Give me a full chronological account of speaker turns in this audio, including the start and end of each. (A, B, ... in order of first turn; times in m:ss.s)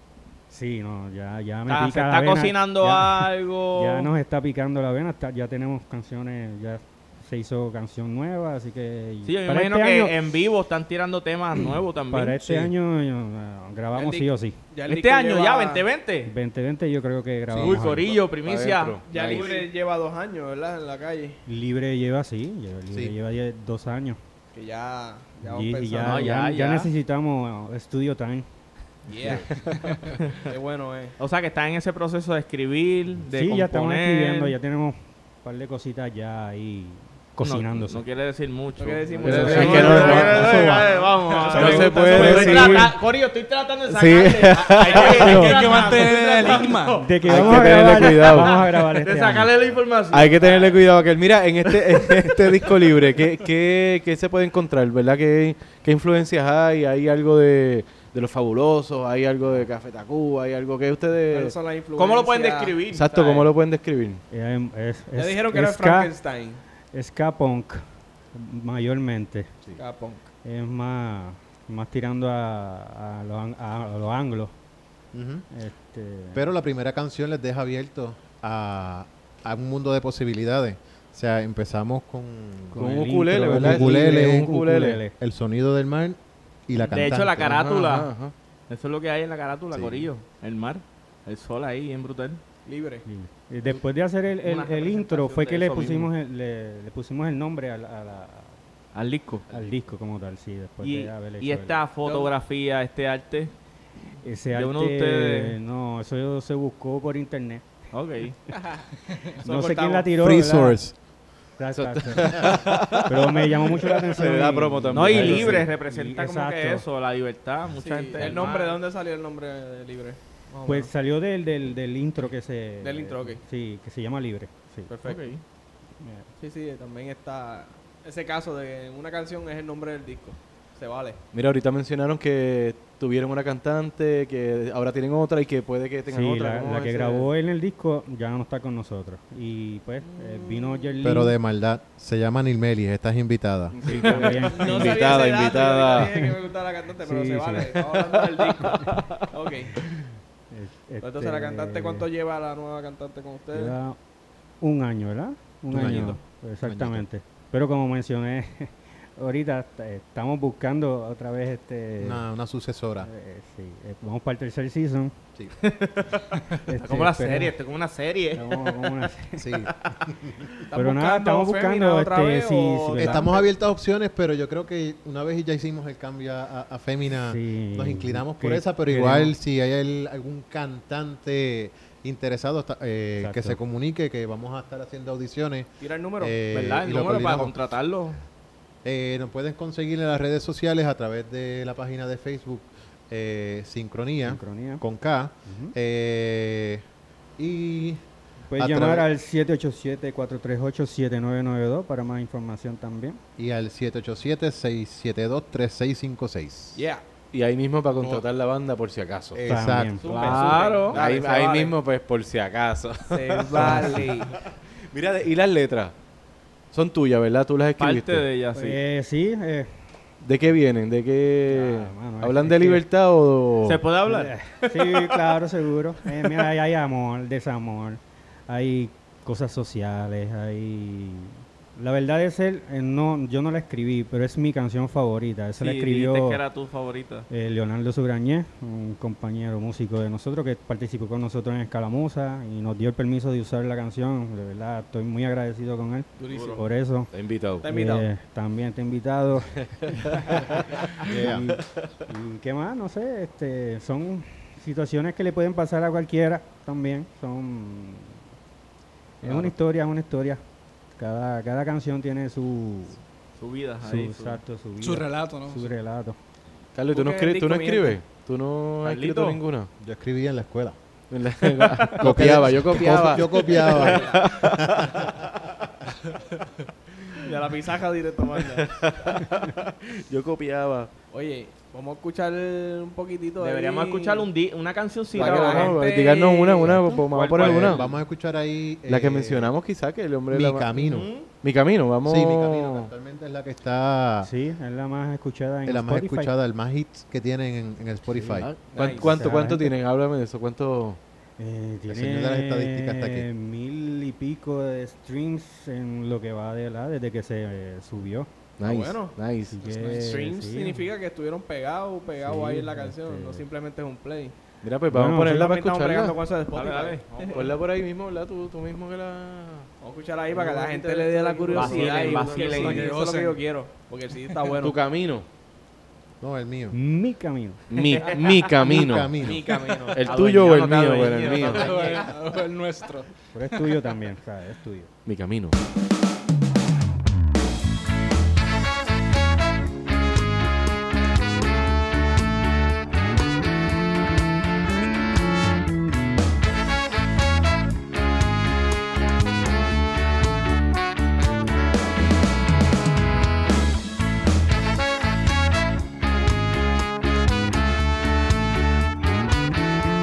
0:00.5-0:10.1 A
0:01.7-0:04.1 B
0:09.2-0:12.7 B
0:12.1-0:14.6 A
0:13.9-0:15.8 C
0:14.9-0:16.3 B
0:16.2-0:18.2 A
0:17.5-0:17.8 D
0:17.6-0:19.6 B
0:18.4-0:19.6 E
0:19.0-0:21.4 C
0:21.4-0:24.2 A
0:24.5-0:26.3 C
0:25.4-0:28.5 A
0:26.0-0:26.9 B
0:29.1-0:29.5 C
0:30.5-0:31.1 C
0:31.2-0:34.5 B
0:33.3-0:38.0 A
0:37.4-0:50.8 B
0:38.8-0:42.8 C
0:39.2-0:40.7 E
0:39.4-0:40.8 A
0:41.5-0:43.0 E
0:42.4-0:42.8 A
0:43.9-0:45.6 E
0:45.1-0:47.0 F
0:47.0-0:49.5 A
0:47.2-0:48.7 E
0:50.1-1:01.5 E
0:51.6-0:52.4 B
1:01.3-1:02.8 C
1:02.0-1:03.5 B
1:02.9-1:04.2 E
1:04.3-1:06.1 A
1:05.2-1:06.6 C
1:06.9-1:07.8 A
1:08.3-1:09.5 A
1:09.8-1:10.3 C
1:10.4-1:14.5 A
1:15.1-1:15.4 D
1:15.5-1:16.5 A
1:16.3-1:22.8 D
1:22.7-1:25.1 A
1:22.8-1:25.0 E
1:23.4-1:24.6 D
1:25.2-1:27.6 D
1:26.8-1:28.1 B
1:27.4-1:28.3 E
1:28.7-1:32.4 B
1:29.7-1:30.1 D
1:32.6-1:33.0 C
1:33.0-1:38.6 A
1:34.4-1:36.1 B
1:38.9-1:39.5 B
1:39.5-1:41.8 A
1:40.8-1:43.5 B
1:42.0-1:42.3 C
1:44.2-1:47.6 A
1:44.5-1:45.6 B
1:47.9-1:48.4 B
1:48.6-1:48.8 C
1:49.4-1:50.8 A
1:49.4-1:50.1 C
1:50.2-1:50.9 D
1:51.6-1:56.8 A
1:51.7-1:55.7 E
1:54.9-1:58.8 B
1:57.8-2:00.9 C
2:00.6-2:04.9 A
2:02.8-2:03.4 C
2:04.9-2:05.2 C
2:05.0-2:05.4 B
2:06.0-2:06.2 A
2:06.4-2:11.2 C
2:11.3-2:17.3 E
2:16.1-2:21.4 A
2:21.0-2:23.8 D
2:23.7-2:26.1 E
2:23.9-2:25.0 A
2:24.4-2:29.8 C
2:26.0-2:26.3 A
2:27.0-2:27.8 A
2:30.5-2:32.1 A
2:31.0-2:33.8 C
2:33.5-2:34.0 A
2:34.6-2:42.3 A
2:35.7-2:37.0 D
2:42.0-2:43.1 D
2:43.0-2:45.1 A
2:45.6-2:48.9 B
2:46.6-2:47.5 A
2:48.3-2:49.6 A
2:49.4-2:50.4 D
2:50.7-2:53.4 C
2:50.7-2:53.3 A
2:53.0-3:07.5 D
2:57.2-2:59.3 A
3:03.2-3:03.6 A
3:05.8-3:06.4 C
3:06.5-3:08.2 B
3:08.8-3:16.8 D
3:14.2-3:14.8 A
3:15.4-3:15.7 A
3:17.4-3:18.0 D
3:18.5-3:23.2 A
3:18.6-3:19.1 D
3:23.4-3:26.8 D
3:26.7-3:27.0 C
3:27.3-3:29.4 E
3:29.3-3:30.0 D
3:29.5-3:30.4 A
3:30.0-3:31.8 C
3:30.0-3:31.0 B
3:30.1-3:34.3 E
3:33.1-3:34.3 C
3:33.6-3:34.0 A
3:34.9-3:35.9 E
3:36.7-3:38.2 E
3:37.8-3:38.8 B
3:38.5-3:39.7 A
3:40.2-3:43.8 E
3:41.5-3:42.8 A
3:43.6-3:45.1 B
3:44.1-3:56.4 A
3:55.6-3:57.3 B
3:57.3-4:07.1 A
4:06.2-4:06.5 C
4:07.1-4:07.6 E
4:07.6-4:08.1 C
4:07.6-4:18.2 A
4:10.2-4:10.4 E
4:11.0-4:11.5 D
4:19.2-4:20.4 A
4:19.2-4:19.5 E
4:21.0-4:23.0 A
4:23.4-4:24.4 B
4:23.8-4:26.2 A
4:24.8-4:25.7 F
4:26.7-4:29.7 E
4:26.9-4:28.0 C
4:28.8-4:29.4 B
4:29.8-4:30.8 D
4:31.1-4:35.0 E
4:32.0-4:35.1 D
4:33.3-4:34.2 C
4:37.2-4:38.7 C
4:38.5-4:40.9 E
4:41.1-4:44.3 C
4:43.4-4:45.8 B
4:45.1-4:46.8 C
4:45.1-4:47.9 E
4:47.2-4:47.5 A
4:47.4-4:49.5 D
4:48.9-4:50.7 E
4:50.3-4:51.1 D
4:50.8-4:51.2 B
4:51.4-4:52.9 E
4:52.0-4:54.3 D
4:54.2-4:56.3 A
4:55.6-4:58.5 D
4:58.1-4:59.7 A
4:58.4-5:01.0 E
4:58.7-4:59.1 C
5:01.4-5:08.3 A
5:01.9-5:03.3 D
5:08.6-5:10.1 E
5:08.6-5:09.2 C
5:09.5-5:10.9 A
5:09.7-5:14.3 C
5:12.2-5:13.4 A
5:14.6-5:16.2 E
5:14.9-5:15.6 A
5:15.3-5:17.5 C
5:16.5-5:17.5 B
5:17.3-5:19.7 E
5:19.8-5:24.8 C
5:20.3-5:22.2 E
5:21.5-5:22.9 B
5:21.8-5:23.4 F
5:24.5-5:25.2 E
5:26.2-5:26.8 D
5:26.7-5:27.6 A
5:27.7-5:31.8 E
5:28.0-5:28.3 B
5:28.6-5:29.5 D
5:29.2-5:30.2 C
5:30.0-5:32.1 B
5:31.5-5:33.1 F
5:33.3-5:34.9 A
5:35.0-5:35.6 E